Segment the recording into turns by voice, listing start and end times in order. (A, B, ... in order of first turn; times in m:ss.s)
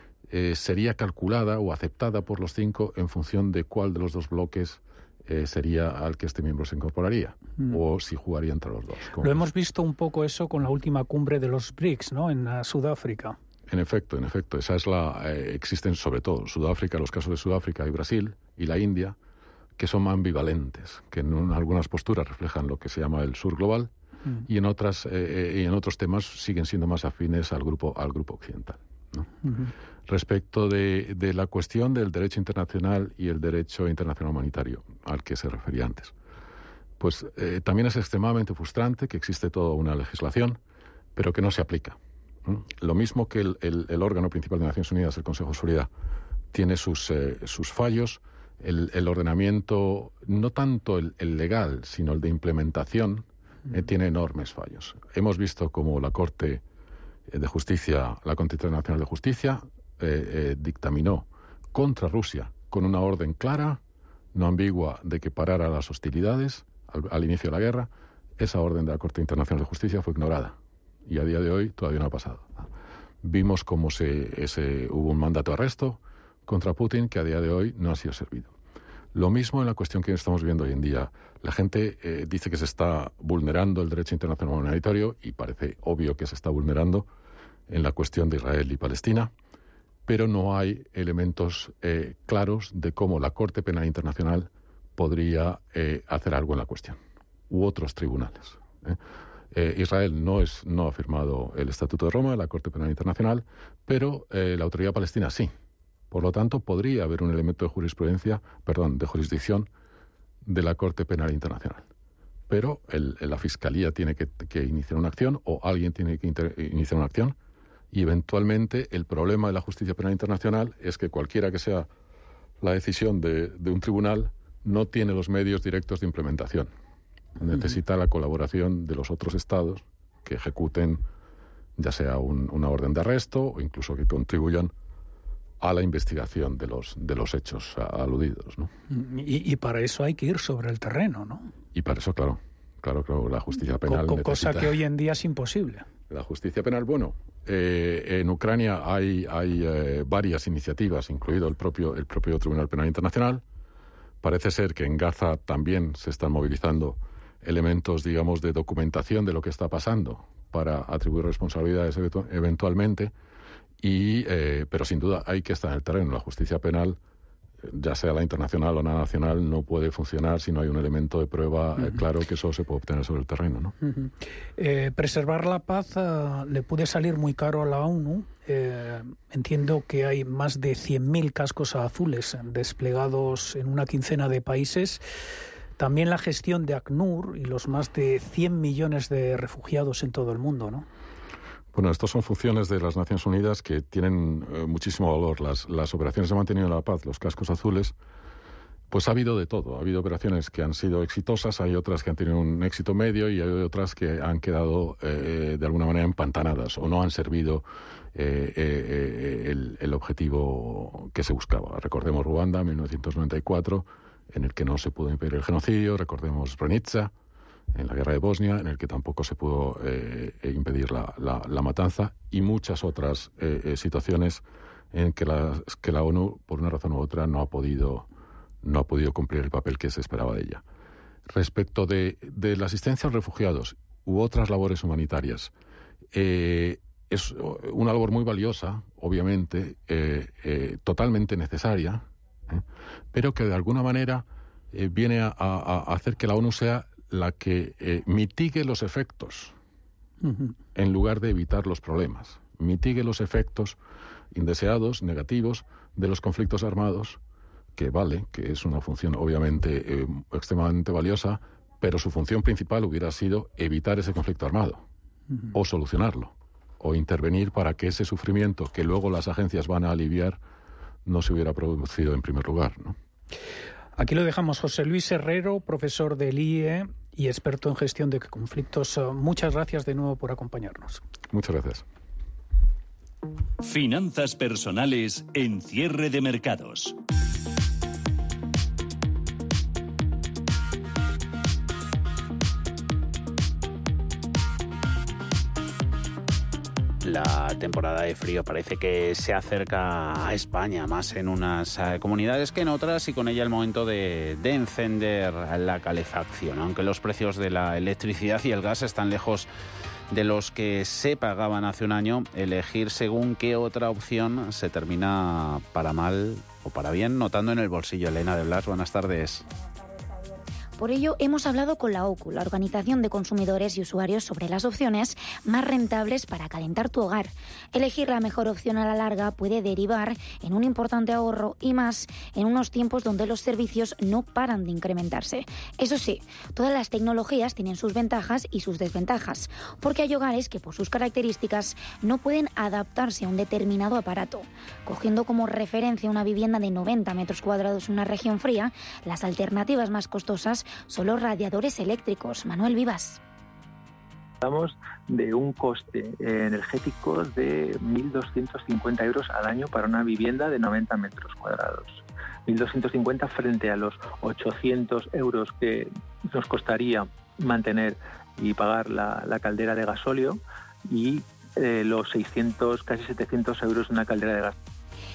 0:00.3-0:09.5 A
0:09.2-0:13.4 B
0:13.7-0:19.2 A
0:19.8-0:23.9 A
0:24.5-0:29.3 A
0:30.1-0:36.1 A
0:37.0-0:40.6 A
0:41.2-0:45.9 A
0:46.5-0:56.6 A
0:57.3-1:03.8 A
1:04.4-1:10.6 A
1:11.1-1:12.6 A
1:13.2-1:18.5 A
1:19.2-1:27.1 A
1:27.7-1:29.3 A
1:30.1-1:37.0 A
1:37.5-1:39.0 A
1:39.5-1:45.5 A
1:46.1-1:49.7 A
1:50.4-1:51.8 A
1:52.5-1:57.4 A
1:57.9-2:01.9 A
2:02.6-2:06.7 A
2:07.4-2:11.0 A
2:11.8-2:14.7 A
2:15.6-2:18.7 A
2:18.9-2:21.5 B
2:21.7-2:24.8 A
2:23.8-2:25.9 B
2:26.1-2:33.4 A
2:34.2-2:43.1 A
2:43.8-2:47.0 A
2:47.6-2:53.7 A
2:53.8-3:05.0 B
3:05.8-3:10.9 B
3:11.7-3:18.0 A
3:18.9-3:37.1 A
3:37.7-3:48.1 A
3:48.6-3:50.6 A
3:51.3-3:55.5 A
3:56.1-4:09.6 A
4:10.2-4:10.5 B
4:10.8-4:13.8 A
4:14.3-4:17.2 A
4:17.8-4:24.8 A
4:25.5-4:30.4 A
4:31.1-4:33.0 A
4:34.0-4:41.0 B
4:41.3-4:41.8 A
4:43.6-4:47.0 C
4:57.0-5:09.5 D
5:10.1-5:19.5 D
5:20.8-5:53.2 E
5:54.4-6:14.6 F